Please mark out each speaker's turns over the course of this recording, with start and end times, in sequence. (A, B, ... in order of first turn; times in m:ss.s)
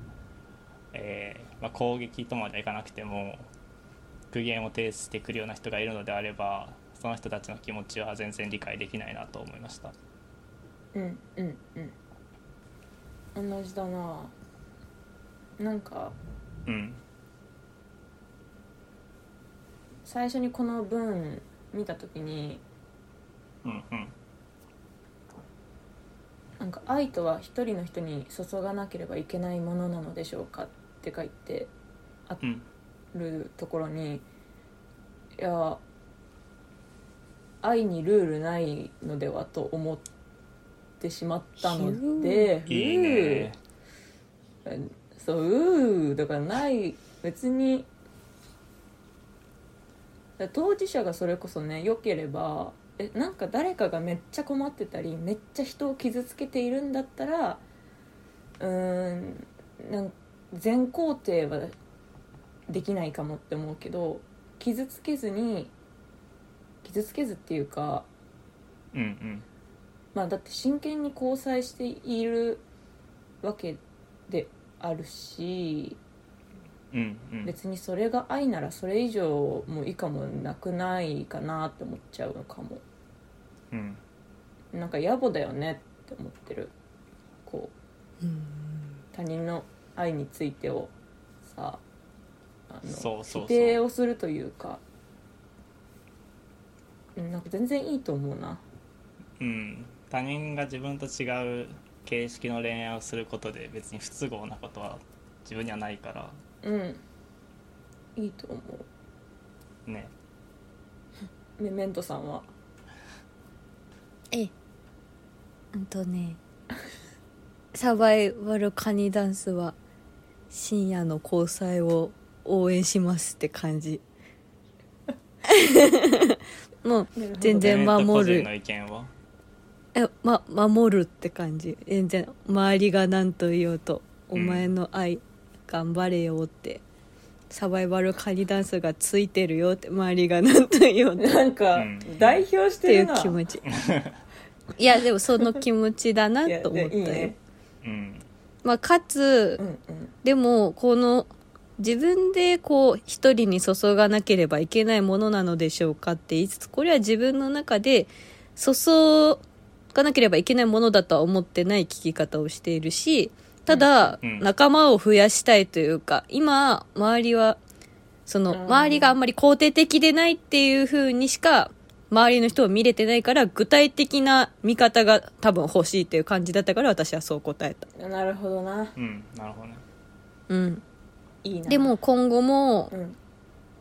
0:00.9-0:03.5 A
0:04.3-0:09.9 A
0:10.9-0:12.0 B
0:13.4-0:14.3 B
0:15.6-0:16.2 B
0:16.7-0:17.0 A
0:20.0-0:22.6 B
0:23.6-0:24.1 A
0:26.6-0:31.7 B
0:32.4-0:32.7 A
0:33.1-0:34.2 B
0:35.4-0:35.8 B
0:37.6-0:40.1 B
0:41.0-0:43.5 B
0:41.6-0:42.5 C
0:42.7-0:43.6 A
0:44.6-0:47.9 B
0:50.4-0:57.6 B
0:58.6-1:01.8 B
1:02.7-1:05.7 B
1:06.8-1:08.1 B
1:08.9-1:09.5 A
1:10.1-1:12.6 B
1:13.4-1:16.0 B
1:16.9-1:17.6 A
1:17.4-1:22.8 B
1:23.7-1:24.0 A
1:24.7-1:26.7 B
1:27.4-1:27.7 B
1:28.2-1:29.0 C
1:29.1-1:30.9 B
1:31.4-1:31.8 B
1:32.7-1:34.8 B
1:32.9-1:33.8 A
1:37.2-1:38.6 B
1:39.4-1:46.4 A
1:46.6-1:47.0 B
1:48.2-1:48.9 B
1:49.9-1:50.1 A
1:51.6-1:52.5 B
1:55.7-1:56.4 C
1:57.7-1:59.8 C
2:00.5-2:04.0 C
2:05.5-2:08.5 C
2:07.2-2:07.9 B
2:07.6-2:09.1 A
2:10.0-2:16.8 C
2:14.3-2:14.7 A
2:17.5-2:21.4 C
2:21.2-2:23.4 B
2:21.8-2:22.5 A
2:22.9-2:23.6 C
2:23.7-2:24.2 A
2:24.8-2:27.3 C
2:26.4-2:27.4 B
2:27.8-2:28.2 A
2:28.6-2:29.6 C
2:29.6-2:30.1 B
2:30.2-2:47.6 C
2:43.7-2:44.2 B
2:44.2-2:44.5 A
2:48.3-2:57.9 C
2:48.5-2:49.2 B
2:58.0-2:59.0 B
2:59.0-2:59.8 A
3:00.5-3:00.8 C
3:01.4-3:01.9 B
3:01.7-3:02.9 C
3:02.9-3:03.2 B